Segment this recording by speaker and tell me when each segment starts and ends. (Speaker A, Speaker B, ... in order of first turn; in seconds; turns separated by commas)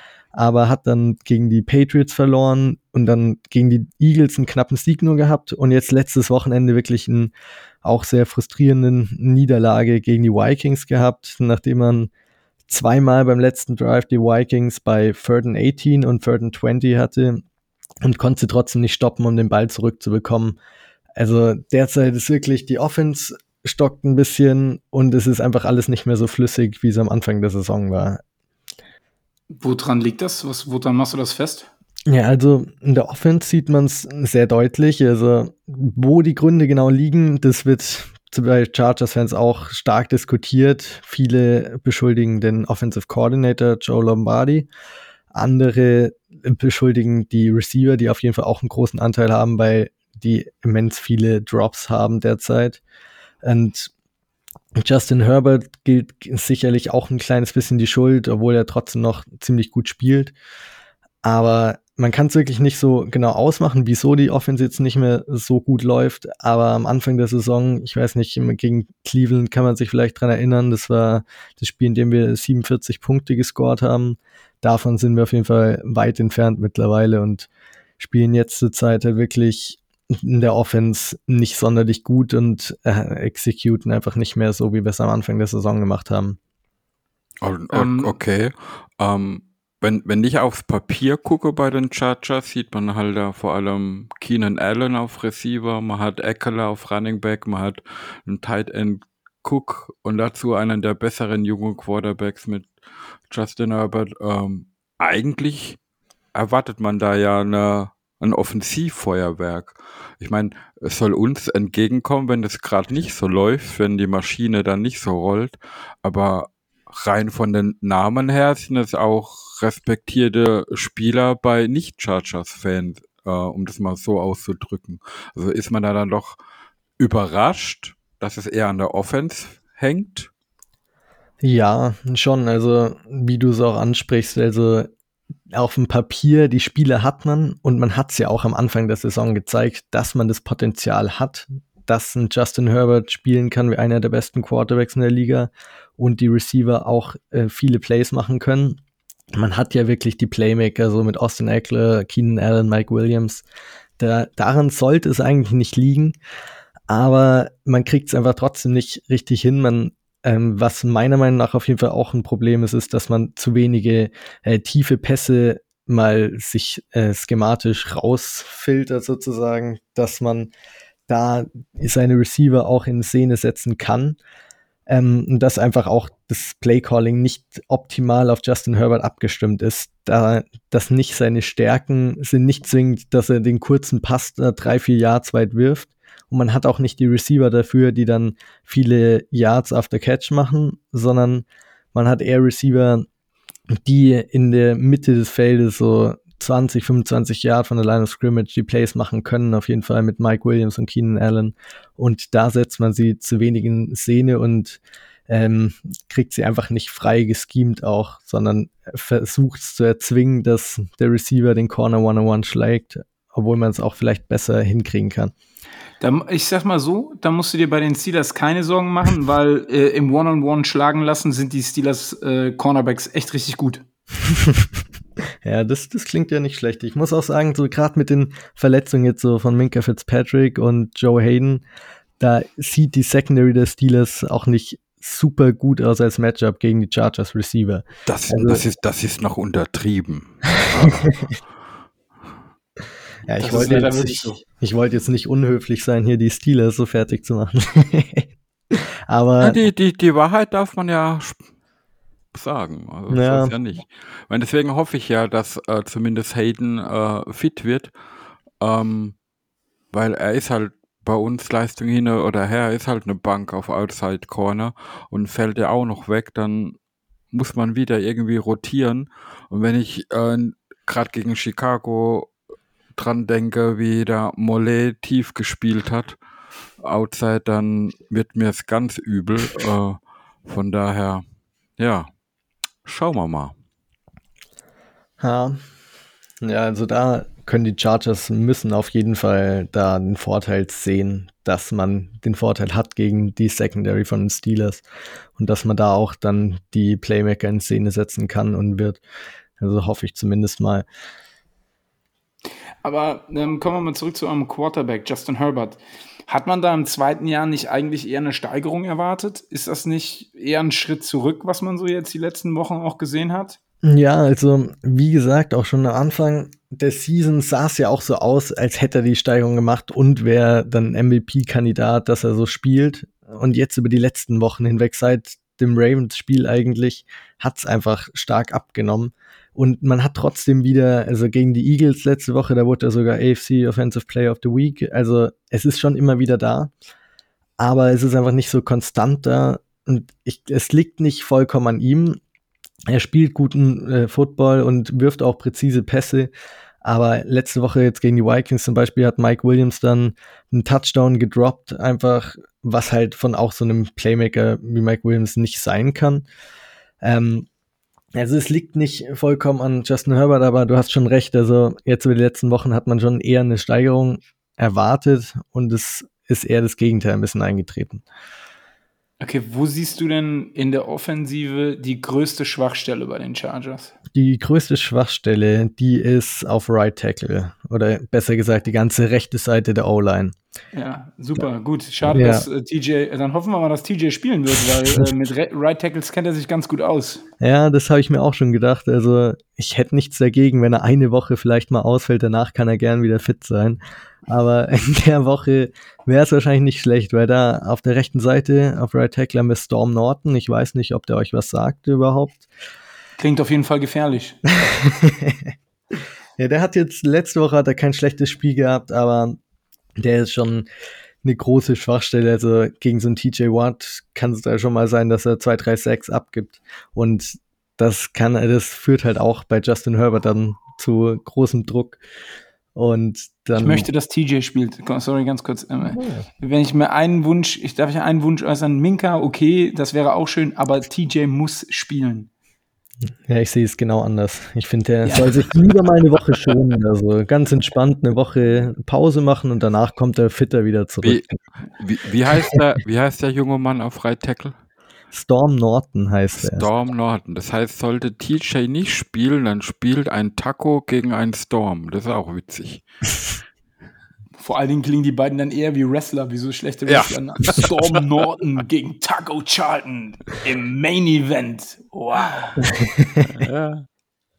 Speaker A: 0.3-7.3, Speaker A: 7.8-12.1, Speaker A: 12.7-17.4, Speaker A: 18.0-20.6, Speaker A: 21.2-28.2, Speaker B: 29.5-31.7, Speaker A: 32.1-44.7, Speaker A: 45.3-52.8, Speaker A: 53.4-53.9, Speaker A: 54.8-60.3, Speaker A: 61.2-77.5, Speaker A: 78.0-86.4, Speaker C: 87.4-102.7, Speaker B: 87.7-88.2, Speaker C: 103.3-105.8, Speaker C: 106.3-126.4, Speaker C: 127.0-130.3, Speaker A: 131.4-134.9, Speaker A: 135.5-148.8, Speaker A: 149.3-153.4, Speaker A: 154.0-156.2, Speaker A: 156.9-170.5, Speaker A: 171.1-174.2, Speaker A: 174.9-193.1, Speaker A: 193.7-215.3, Speaker B: 216.0-223.8, Speaker A: 224.3-224.7, Speaker A: 225.4-231.7, Speaker A: 232.2-238.6, Speaker C: 238.1-241.3, Speaker A: 240.8-241.3, Speaker A: 243.3-249.6, Speaker B: 243.4-244.4, Speaker C: 249.4-251.4, Speaker C: 252.3-257.9, Speaker A: 253.1-253.5, Speaker C: 258.6-259.1, Speaker C: 259.9-266.8, Speaker C: 267.3-272.3, Speaker C: 272.9-276.2, Speaker C: 276.8-281.2, Speaker C: 281.8-282.1, Speaker C: 282.9-283.5, Speaker A: 285.2-285.6, Speaker A: 286.4-294.8, Speaker A: 295.4-299.0, Speaker A: 299.6-300.9, Speaker B: 302.8-313.6, Speaker A: 313.8-336.7, Speaker A: 337.6-342.2, Speaker A: 342.9-346.3, Speaker A: 346.8-356.3, Speaker A: 357.0-357.5, Speaker A: 358.1-368.0, Speaker B: 369.2-373.9, Speaker A: 374.1-380.4, Speaker B: 380.7-387.2, Speaker A: 382.1-382.5, Speaker A: 387.4-402.5, Speaker B: 403.2-404.4, Speaker A: 404.6-409.4, Speaker A: 410.0-410.7, Speaker A: 411.2-422.0, Speaker A: 422.8-423.9, Speaker B: 423.6-432.3, Speaker A: 425.9-426.2, Speaker A: 433.3-441.2, Speaker B: 435.1-435.5, Speaker C: 441.0-444.6, Speaker A: 442.3-442.6, Speaker A: 445.1-446.7, Speaker C: 446.4-452.9, Speaker B: 454.4-462.6, Speaker C: 456.9-457.8, Speaker A: 462.7-463.3, Speaker C: 463.4-463.9